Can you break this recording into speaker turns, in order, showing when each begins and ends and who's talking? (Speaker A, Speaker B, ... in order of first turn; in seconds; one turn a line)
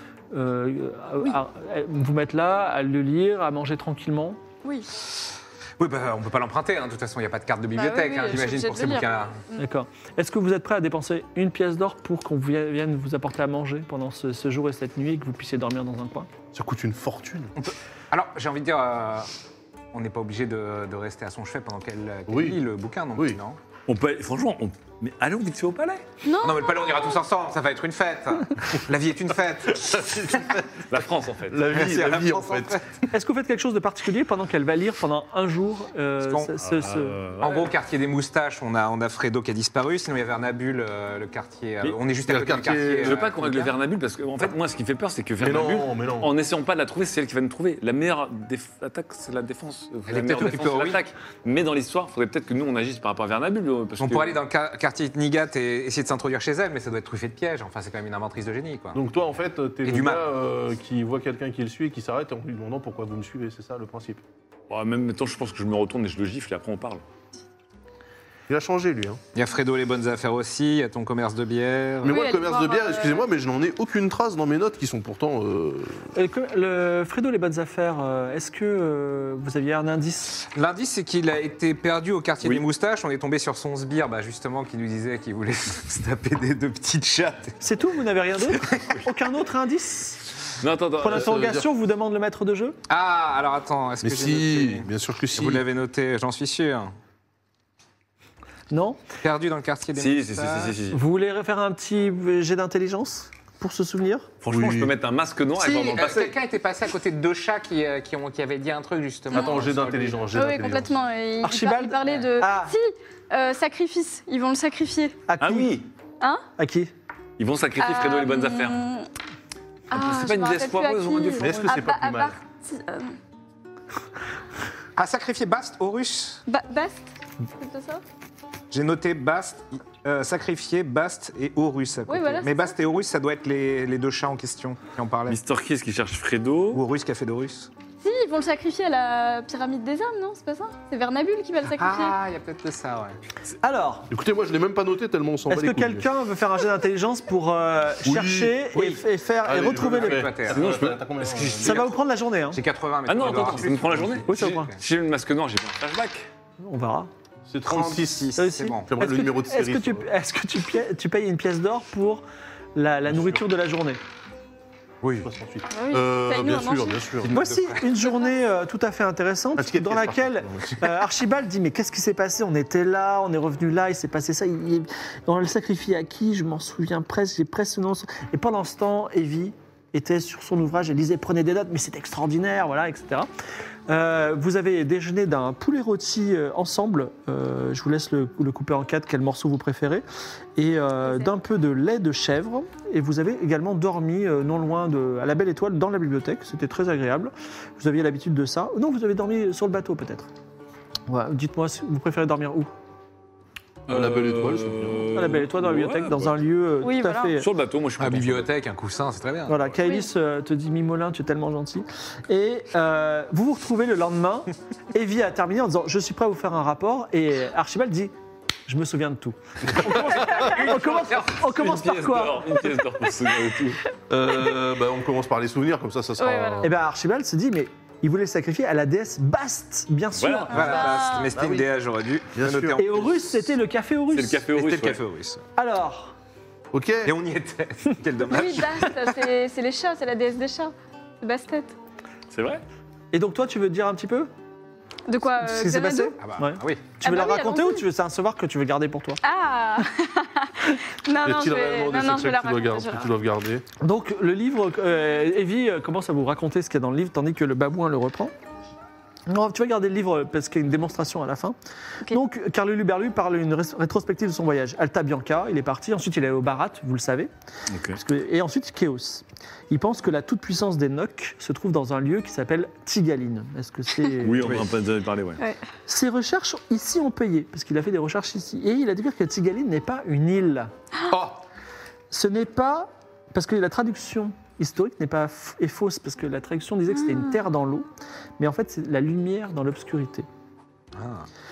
Speaker A: 0.3-4.4
Speaker B: 4.6-4.9
Speaker C: 5.8-9.4
Speaker B: 7.8-9.7
Speaker A: 9.6-16.3
Speaker D: 16.5-17.5
Speaker C: 17.6-19.3
Speaker C: 19.9-23.6
Speaker D: 22.3-22.6
Speaker E: 23.9-26.1
Speaker B: 26.2-27.2
Speaker C: 26.4-30.4
Speaker D: 29.8-30.7
Speaker E: 30.9-31.7
Speaker D: 31.5-32.8
Speaker C: 31.7-32.9
Speaker A: 33.1-37.2
Speaker C: 36.2-36.5
Speaker E: 36.7-37.7
Speaker C: 37.4-43.8
Speaker D: 42.2-43.2
Speaker E: 43.0-54.4
Speaker D: 45.4-46.3
Speaker C: 50.1-51.1
Speaker C: 54.0-59.0
Speaker D: 58.9-64.2
Speaker C: 59.8-60.3
Speaker E: 64.7-67.0
Speaker D: 68.5-69.2
Speaker C: 69.3-72.2
Speaker D: 72.0-76.1
Speaker B: 72.0-73.3
Speaker A: 76.2-80.3
Speaker C: 80.4-87.6
Speaker A: 87.6-90.3
Speaker C: 88.5-89.0
Speaker E: 90.6-91.3
Speaker A: 91.0-92.8
Speaker D: 91.1-91.7
Speaker C: 92.9-96.9
Speaker D: 94.0-95.6
Speaker A: 98.7-99.0
Speaker C: 99.2-100.8
Speaker E: 100.0-101.0
Speaker A: 100.9-104.3
Speaker E: 104.4-106.3
Speaker D: 104.5-104.9
Speaker C: 105.6-110.3
Speaker B: 109.3-109.7
Speaker D: 109.3-111.0
Speaker B: 110.3-115.2
Speaker A: 111.4-112.7
Speaker A: 115.3-115.8
Speaker E: 115.4-115.9
Speaker A: 116.6-116.9
Speaker E: 117.4-118.9
Speaker B: 117.8-119.1
Speaker E: 119.9-121.7
Speaker B: 119.9-123.2
Speaker D: 121.4-122.4
Speaker C: 125.0-126.4
Speaker B: 126.5-128.0
Speaker C: 128.7-135.4
Speaker B: 132.1-132.8
Speaker E: 135.3-136.8
Speaker C: 136.7-137.7
Speaker B: 138.0-142.2
Speaker C: 141.8-143.2
Speaker A: 143.6-144.1
Speaker D: 144.1-146.1
Speaker A: 145.5-150.3
Speaker D: 148.1-148.6
Speaker C: 148.7-149.0
Speaker D: 149.4-151.9
Speaker C: 149.6-150.8
Speaker E: 150.5-151.8
Speaker C: 151.6-152.0
Speaker A: 151.6-152.6
Speaker C: 152.5-154.8
Speaker E: 153.1-156.3
Speaker D: 153.2-154.3
Speaker A: 154.3-154.7
Speaker A: 156.6-157.1
Speaker D: 157.5-158.4
Speaker C: 157.6-158.9
Speaker A: 158.4-162.2
Speaker D: 158.9-160.1
Speaker A: 162.8-164.0
Speaker D: 163.1-163.4
Speaker C: 165.0-165.3
Speaker D: 165.2-167.4
Speaker B: 165.7-167.1
Speaker C: 167.2-168.0
Speaker A: 167.3-183.3
Speaker D: 169.6-171.0
Speaker A: 183.9-190.0
Speaker A: 190.6-200.3
Speaker B: 191.0-191.3
Speaker A: 201.1-202.7
Speaker D: 203.9-205.1
Speaker E: 203.9-206.4
Speaker A: 205.1-207.5
Speaker B: 206.8-207.4
Speaker E: 207.4-208.5
Speaker C: 208.0-209.8
Speaker A: 209.5-218.1
Speaker B: 209.8-210.1
Speaker A: 218.7-222.6
Speaker D: 219.8-220.5
Speaker C: 220.2-221.3
Speaker E: 221.1-223.8
Speaker D: 224.1-226.7
Speaker B: 226.2-226.7
Speaker A: 226.6-230.7
Speaker E: 230.2-230.7
Speaker C: 230.5-233.2
Speaker B: 230.5-231.3
Speaker D: 231.3-231.7
Speaker D: 232.3-233.1
Speaker A: 232.8-234.4
Speaker E: 234.1-235.0
Speaker C: 234.5-235.4
Speaker A: 235.6-236.1
Speaker D: 236.7-237.1
Speaker C: 237.1-239.3
Speaker B: 238.3-241.8
Speaker E: 242.3-242.6
Speaker A: 243.1-244.3
Speaker B: 245.1-246.2
Speaker A: 245.4-249.2
Speaker C: 246.2-246.9
Speaker B: 247.0-247.8
Speaker B: 249.2-253.1
Speaker D: 251.2-253.7
Speaker A: 253.8-258.3
Speaker A: 259.3-261.6
Speaker A: 262.1-267.3
Speaker E: 267.7-268.0
Speaker A: 268.0-274.7
Speaker E: 274.2-275.4
Speaker A: 275.9-280.7
Speaker A: 282.1-287.9
Speaker B: 286.9-287.4
Speaker A: 288.4-290.3
Speaker C: 290.9-291.3